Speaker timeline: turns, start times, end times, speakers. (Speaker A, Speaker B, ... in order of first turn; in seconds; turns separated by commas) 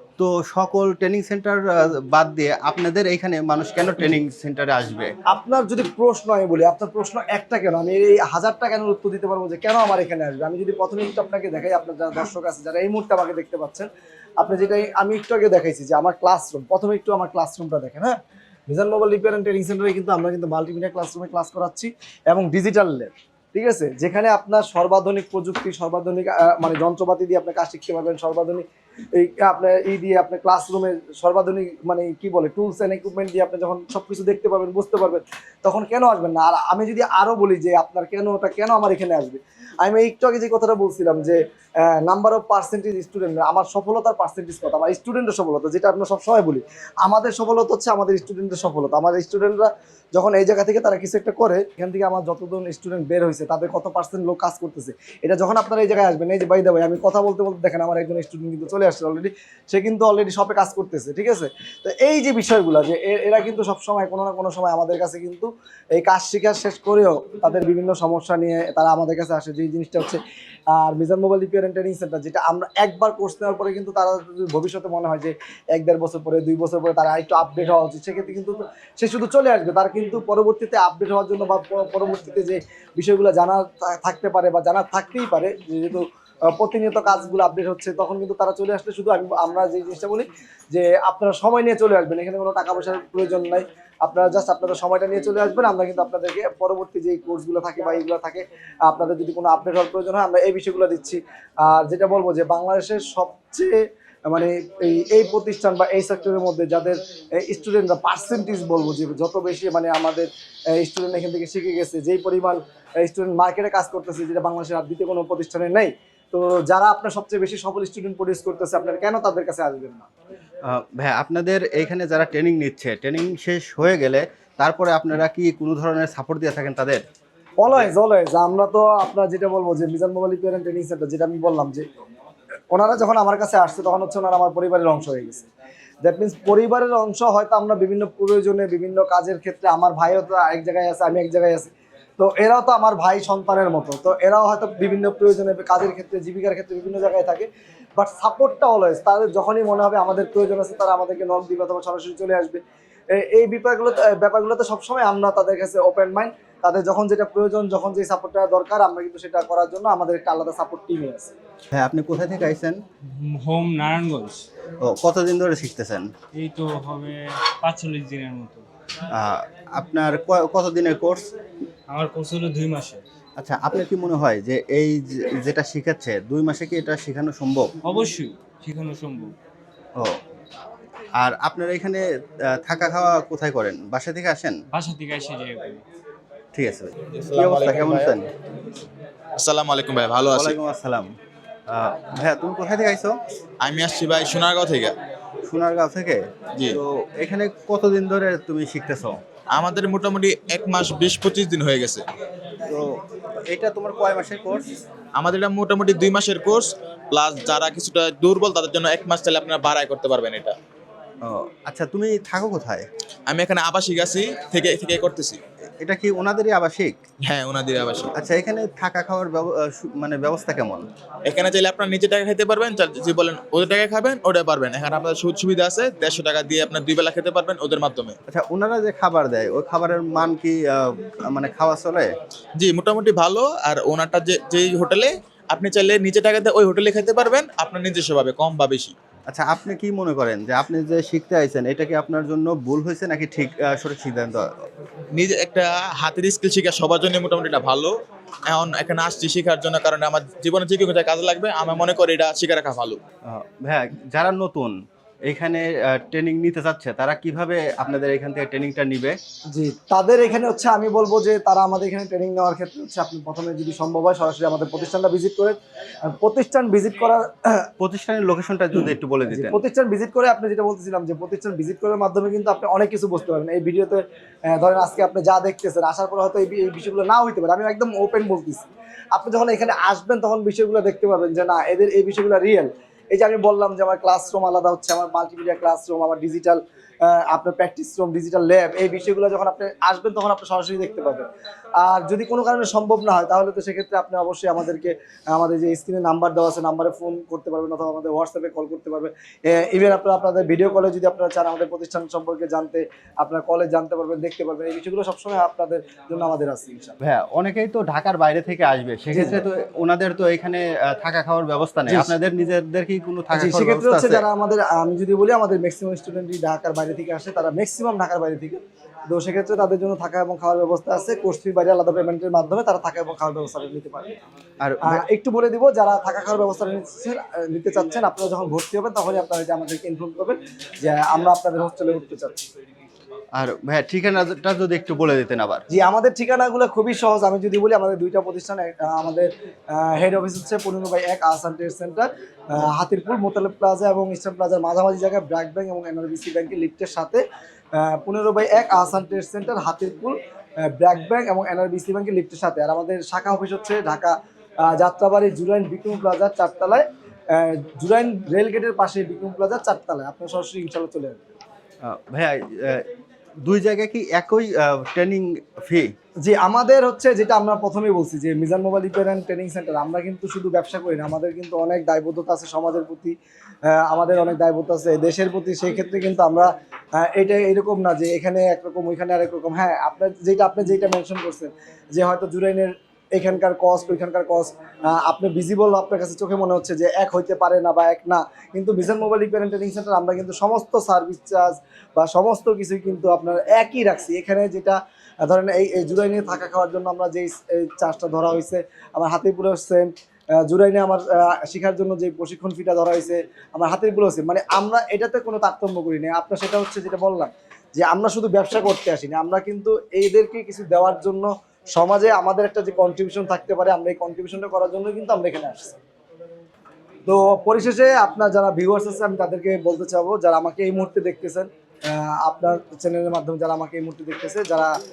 Speaker A: 0.2-5.1, Speaker B: 5.3-13.9, Speaker B: 14.4-18.1, Speaker B: 18.7-70.2, Speaker B: 70.7-103.8, Speaker B: 104.3-120.1, Speaker A: 120.7-127.0, Speaker B: 127.6-131.8, Speaker B: 132.7-135.5, Speaker B: 136.0-152.6, Speaker B: 153.1-161.3, Speaker A: 161.7-162.8, Speaker C: 163.1-164.4, Speaker A: 164.8-166.0, Speaker C: 166.3-168.6, Speaker A: 169.1-171.3, Speaker C: 171.9-173.0, Speaker A: 173.4-177.7, Speaker C: 177.8-179.3, Speaker A: 181.2-184.6, Speaker C: 184.7-185.8, Speaker A: 186.5-188.3, Speaker D: 187.1-188.2, Speaker D: 189.4-190.6, Speaker A: 190.3-191.1, Speaker A: 191.7-193.2, Speaker D: 193.6-194.9, Speaker A: 195.4-199.2, Speaker D: 199.5-202.0, Speaker A: 202.7-204.7, Speaker D: 205.1-210.5, Speaker A: 211.2-212.8, Speaker D: 213.3-215.4, Speaker A: 215.8-216.9, Speaker D: 217.2-218.1, Speaker A: 218.2-220.9, Speaker D: 221.3-228.1, Speaker A: 228.3-232.1, Speaker D: 232.6-238.9, Speaker A: 239.3-244.5, Speaker D: 245.1-247.9, Speaker D: 248.5-253.0, Speaker A: 253.2-254.7, Speaker A: 255.3-259.2, Speaker B: 259.5-267.7, Speaker A: 267.8-269.6, Speaker B: 269.3-291.2, Speaker B: 291.8-306.9, Speaker A: 307.0-314.2, Speaker B: 309.1-309.4, Speaker B: 311.9-312.1, Speaker B: 313.3-324.1, Speaker A: 324.6-325.0, Speaker B: 324.9-332.4, Speaker A: 333.4-335.6, Speaker B: 335.7-347.2, Speaker B: 347.8-350.1, Speaker B: 350.7-361.2, Speaker A: 361.8-362.8, Speaker A: 363.4-365.9, Speaker B: 366.2-373.1, Speaker B: 373.7-399.9, Speaker B: 400.5-415.8, Speaker B: 417.1-424.7